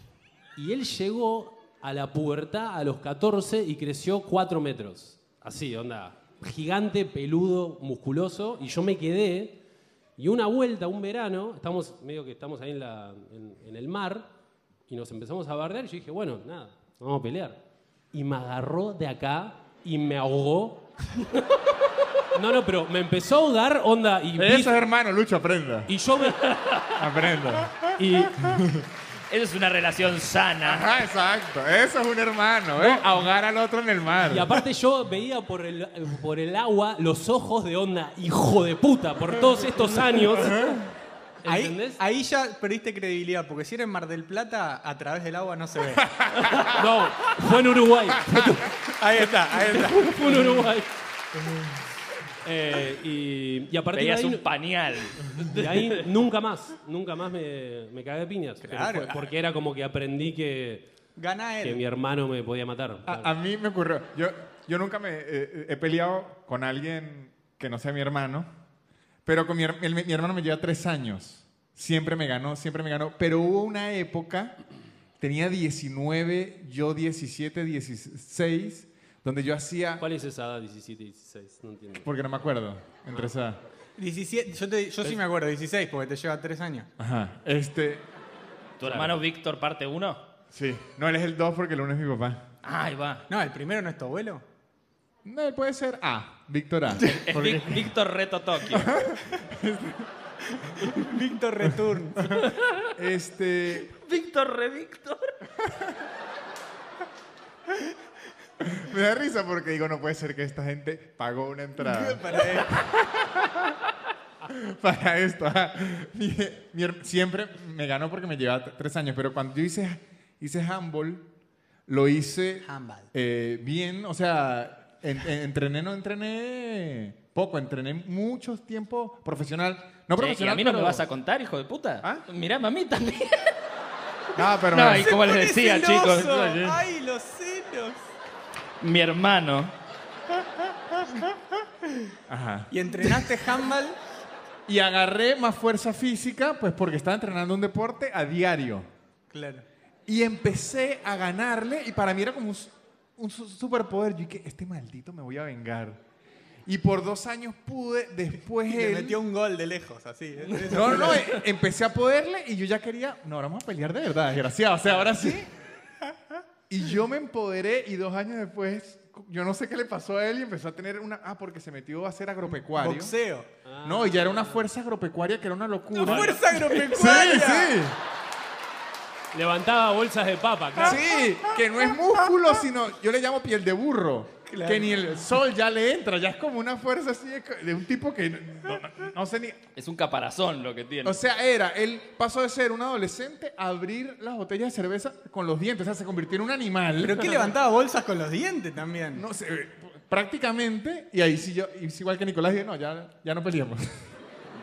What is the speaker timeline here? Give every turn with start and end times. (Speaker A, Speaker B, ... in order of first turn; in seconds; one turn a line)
Speaker A: 0.6-9.6
Speaker A: 10.2-14.3
Speaker A: 14.9-17.6
Speaker A: 18.1-20.9
Speaker A: 22.3-24.7
Speaker B: 24.4-25.9
Speaker A: 25.9-26.4
Speaker C: 26.4-27.0
Speaker B: 26.9-28.8
Speaker A: 27.9-28.6
Speaker C: 29.3-30.9
Speaker B: 30.6-34.6
Speaker A: 32.8-33.0
Speaker A: 34.3-40.6
Speaker B: 40.1-40.9
Speaker A: 41.4-42.0
Speaker D: 41.5-46.0
Speaker B: 46.1-46.6
Speaker C: 46.4-46.7
Speaker A: 46.7-48.7
Speaker D: 49.0-50.1
Speaker A: 49.5-50.9
Speaker B: 50.2-50.6
Speaker A: 52.4-54.4
Speaker C: 53.9-56.1
Speaker A: 55.3-60.9
Speaker D: 58.6-59.3
Speaker D: 61.2-61.8
Speaker A: 61.6-63.3
Speaker B: 63.1-68.5
Speaker B: 69.3-74.6
Speaker B: 75.2-80.0
Speaker A: 80.0-82.1
Speaker B: 82.0-83.6
Speaker D: 84.0-86.9
Speaker B: 87.0-88.0
Speaker C: 88.8-90.2
Speaker A: 88.8-89.2
Speaker B: 90.5-92.4
Speaker C: 92.6-93.3
Speaker D: 93.3-94.4
Speaker B: 95.2-97.8
Speaker C: 97.2-98.9
Speaker B: 98.7-100.1
Speaker D: 100.9-102.3
Speaker C: 102.5-102.8
Speaker B: 103.0-103.9
Speaker C: 103.9-105.3
Speaker B: 105.6-105.9
Speaker B: 108.6-113.8
Speaker D: 111.8-112.7
Speaker B: 114.5-121.3
Speaker B: 121.9-131.0
Speaker D: 122.6-123.1
Speaker C: 130.2-133.5
Speaker B: 134.3-135.2
Speaker C: 134.7-136.3
Speaker D: 134.9-138.0
Speaker B: 136.1-136.8
Speaker C: 138.8-139.7
Speaker D: 141.0-141.3
Speaker B: 142.3-142.7
Speaker D: 142.7-144.0
Speaker B: 144.7-148.9
Speaker D: 149.3-149.7
Speaker B: 150.1-156.0
Speaker B: 156.7-159.2
Speaker D: 158.7-161.3
Speaker B: 160.7-165.5
Speaker B: 166.7-173.2
Speaker D: 172.5-173.5
Speaker A: 173.7-174.7
Speaker B: 173.8-178.0
Speaker D: 176.0-177.8
Speaker A: 176.0-176.4
Speaker A: 179.3-181.0
Speaker B: 180.8-189.6
Speaker D: 184.5-185.1
Speaker C: 189.8-191.2
Speaker B: 191.0-197.3
Speaker D: 197.0-199.2
Speaker B: 199.1-204.1